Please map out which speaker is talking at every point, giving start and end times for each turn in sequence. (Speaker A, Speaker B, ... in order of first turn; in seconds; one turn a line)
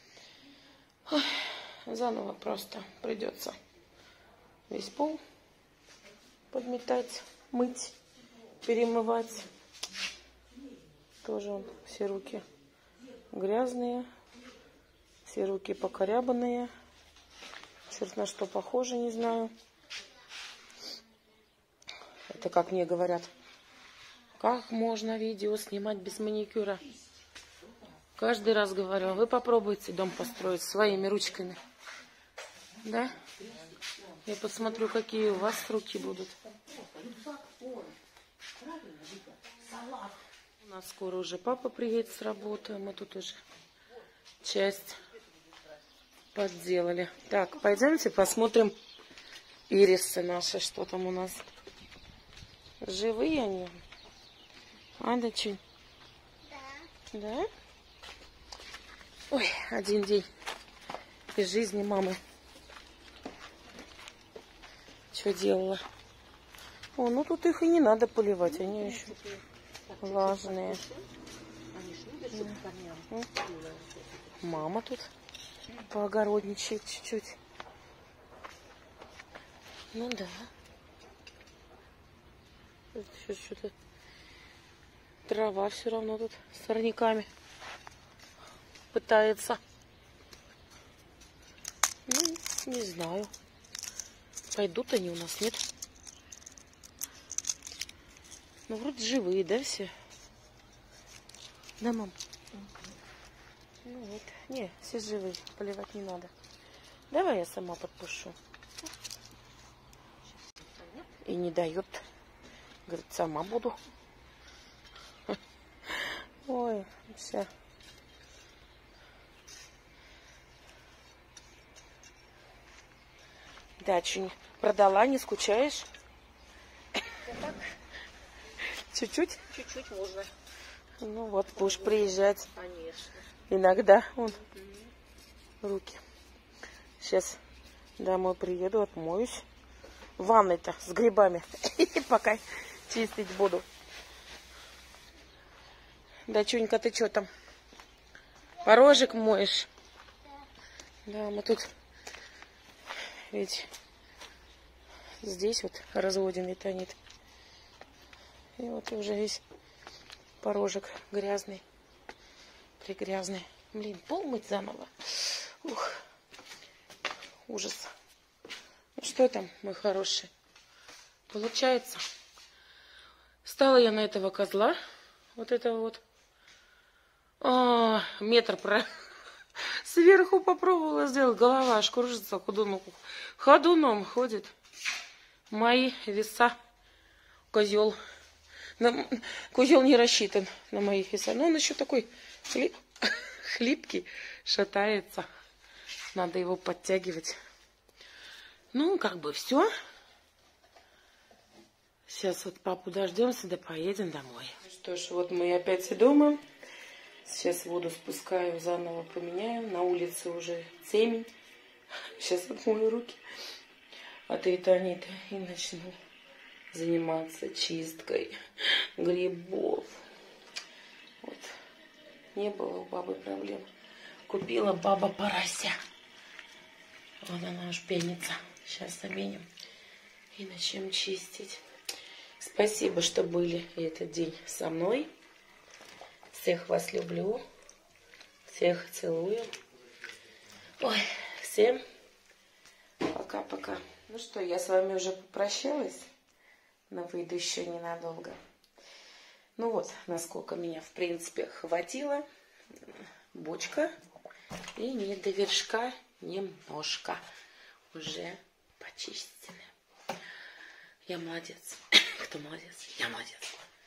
Speaker A: 1.1-3.6
Speaker A: 4.7-5.2
Speaker A: 6.5-7.9
Speaker A: 8.6-9.5
Speaker A: 11.2-12.4
Speaker A: 13.3-14.1
Speaker A: 15.2-16.7
Speaker A: 17.9-19.5
Speaker A: 22.3-23.3
Speaker A: 24.4-26.8
Speaker A: 28.2-31.6
Speaker A: 32.8-33.2
Speaker A: 34.2-36.4
Speaker B: 36.5-37.9
Speaker B: 38.6-40.1
Speaker A: 40.6-43.4
Speaker A: 44.4-45.0
Speaker A: 46.3-48.7
Speaker A: 49.7-51.5
Speaker A: 52.8-53.8
Speaker A: 55.0-55.6
Speaker A: 57.1-57.5
Speaker A: 59.3-60.3
Speaker A: 61.3-62.2
Speaker A: 65.1-65.8
Speaker A: 67.0-69.2
Speaker B: 68.7-71.1
Speaker A: 70.0-70.8
Speaker B: 71.7-74.0
Speaker A: 72.3-73.3
Speaker A: 74.4-75.1
Speaker A: 75.8-77.4
Speaker A: 79.9-80.5
Speaker A: 82.9-83.7
Speaker A: 85.3-87.3
Speaker A: 88.9-89.6
Speaker A: 92.1-93.3
Speaker A: 94.5-95.6
Speaker A: 98.7-99.9
Speaker A: 101.8-102.2
Speaker A: 103.8-106.3
Speaker A: 107.1-108.4
Speaker A: 111.2-112.0
Speaker A: 112.8-113.8
Speaker A: 115.9-117.5
Speaker A: 123.8-125.9
Speaker A: 128.7-129.4
Speaker B: 129.5-130.3
Speaker A: 131.0-132.5
Speaker B: 131.6-133.2
Speaker A: 133.5-134.5
Speaker A: 135.6-136.0
Speaker A: 137.0-137.4
Speaker A: 138.0-139.4
Speaker A: 140.2-143.7
Speaker A: 146.3-147.3
Speaker A: 148.6-149.7
Speaker A: 151.1-151.7
Speaker A: 153.3-153.7
Speaker A: 155.2-157.0
Speaker A: 158.6-159.4
Speaker A: 160.4-161.6
Speaker A: 162.8-166.0
Speaker A: 167.5-167.9
Speaker A: 169.0-170.3
Speaker A: 171.3-172.0
Speaker A: 173.4-174.8
Speaker A: 175.3-176.0
Speaker A: 177.4-179.0
Speaker A: 179.6-184.5
Speaker A: 185.5-186.6
Speaker A: 187.5-188.0
Speaker A: 188.8-195.3
Speaker A: 196.1-197.3
Speaker A: 198.7-199.7
Speaker A: 202.1-206.4
Speaker A: 207.2-211.3
Speaker A: 212.2-213.2
Speaker A: 214.3-215.9
Speaker A: 216.7-220.0
Speaker A: 221.2-221.5
Speaker A: 222.3-223.7
Speaker A: 224.3-225.8
Speaker A: 227.2-229.4
Speaker A: 230.3-231.6
Speaker A: 232.4-235.1
Speaker A: 236.3-237.4
Speaker A: 238.5-239.5
Speaker A: 240.8-241.8
Speaker A: 243.0-246.1
Speaker A: 246.9-248.4
Speaker A: 249.6-252.2
Speaker A: 253.3-253.9
Speaker A: 254.8-257.2
Speaker A: 257.9-259.7
Speaker A: 261.1-263.6